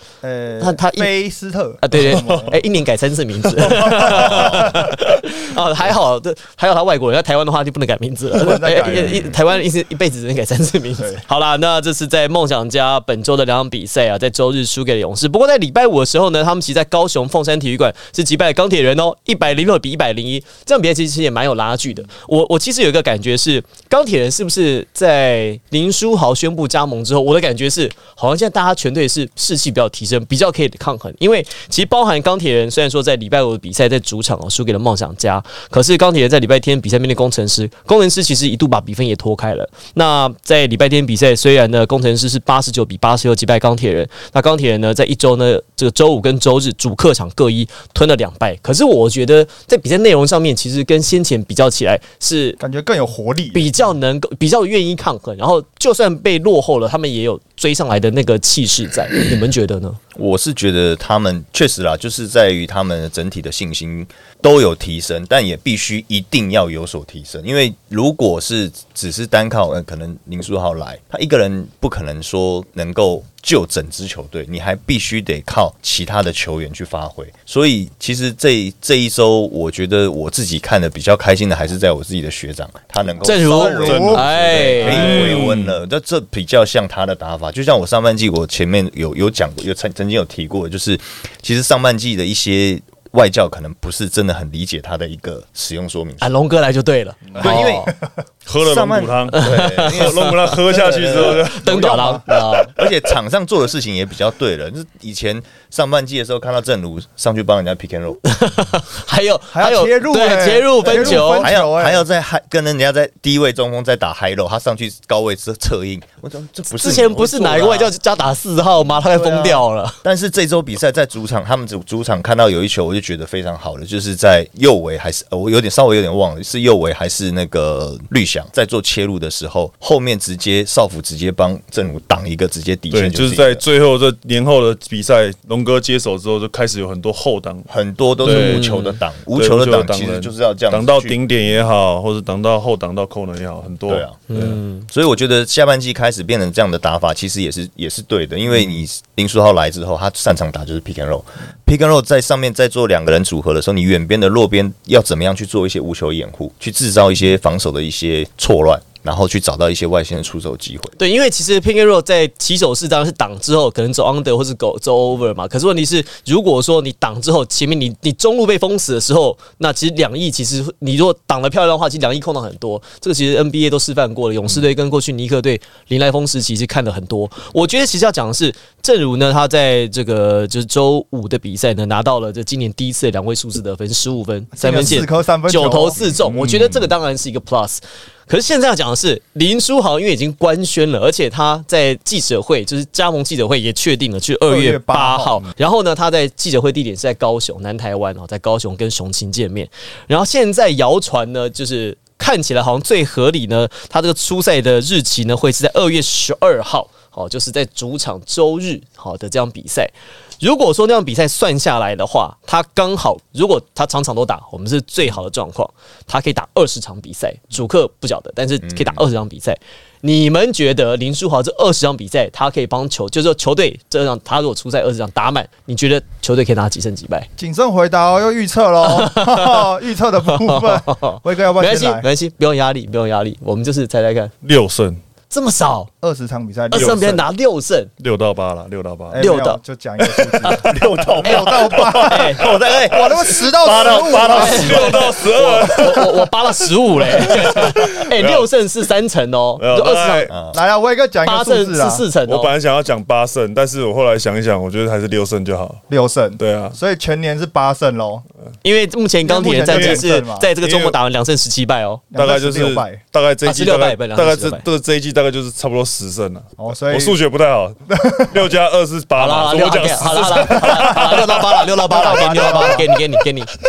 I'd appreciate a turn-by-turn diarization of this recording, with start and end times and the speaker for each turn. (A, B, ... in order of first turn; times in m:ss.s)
0:00.2-0:02.6 A
0:00.6-0:01.1 B
0:01.8-0:52.6 B
0:02.1-0:02.4 C
0:03.7-0:04.8 C
0:03.8-0:04.5 A
0:04.1-0:04.8 D
0:08.3-0:09.3 A
0:09.1-0:09.4 D
0:52.6-0:53.7 A
0:53.5-1:00.0 B
1:00.2-1:36.3 D
1:23.2-1:25.4 B
1:23.4-1:25.2 A
1:23.8-1:25.8 C
1:36.2-1:37.9 B
1:37.4-1:37.9 D
1:38.5-1:42.2 C
1:38.6-1:41.5 D
1:39.3-1:40.6 B
1:41.4-1:42.8 B
1:41.6-1:42.2 A
1:42.6-1:48.2 D
1:48.2-1:51.5 B
1:49.5-1:52.0 A
1:50.8-1:57.9 D
1:56.7-2:00.0 B
1:59.0-2:13.6 D
2:12.9-2:17.7 C
2:17.7-2:21.2 D
2:18.2-2:18.8 C
2:18.2-2:19.0 B
2:19.4-2:24.6 C
2:23.9-2:24.2 D
2:24.3-2:24.9 B
2:24.9-2:41.0 D
2:41.0-3:47.3 B
3:04.5-3:06.0 A
3:06.2-3:06.9 C
3:14.5-3:15.4 A
3:38.6-3:39.0 D
3:47.4-3:52.1 A
3:48.8-3:49.6 B
3:50.3-3:54.3 B
3:54.4-3:55.0 C
3:55.3-3:55.9 B
3:56.0-3:57.2 A
3:56.7-3:57.9 B
3:56.8-3:57.1 C
3:58.0-3:59.3 C
3:59.1-4:04.9 A
3:59.2-3:59.6 B
4:00.4-4:00.7 B
4:00.5-4:05.1 D
4:01.2-4:02.4 B
4:04.1-4:10.3 B
4:04.3-4:06.3 C
4:07.1-4:08.5 C
4:09.6-4:10.3 C
4:10.3-4:10.6 D
4:10.5-4:12.0 A
4:11.2-4:12.5 B
4:12.3-4:15.8 C
4:15.9-4:18.2 A
4:16.4-4:16.8 C
4:18.6-4:22.0 B
4:19.2-4:20.5 A
4:19.7-4:20.1 C
4:20.6-4:21.0 C
4:22.1-4:23.0 A
4:22.2-4:31.7 C
4:23.4-4:24.6 B
4:26.6-4:27.2 A
4:27.9-4:28.4 A
4:29.2-4:33.5 B
4:30.5-4:30.8 A
4:31.8-4:32.9 A
4:32.4-4:32.7 C